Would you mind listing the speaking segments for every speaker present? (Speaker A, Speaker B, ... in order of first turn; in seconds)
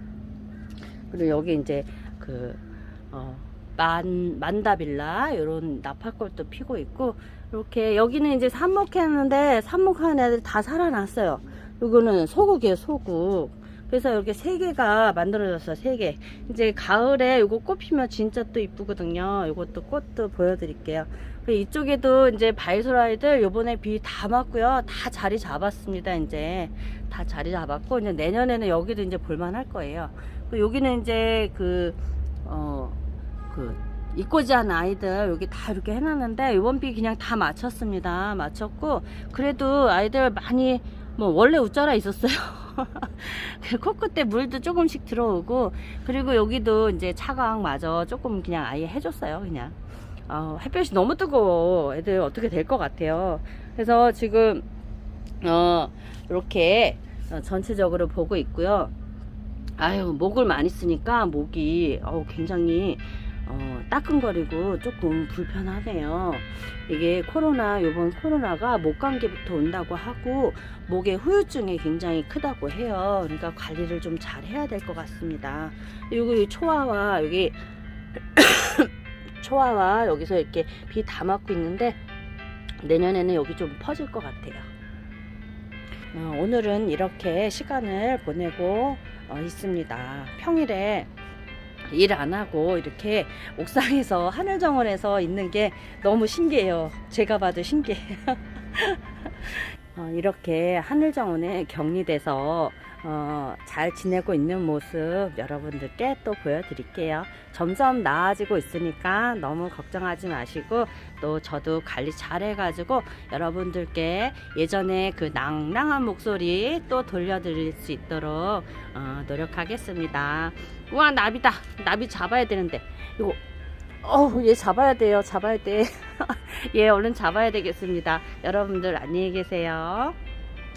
Speaker A: 1.1-54.6, 55.4-58.9, 59.8-77.6, 78.3-82.0, 82.8-84.7, 86.1-91.1, 91.9-123.4, 124.0-130.2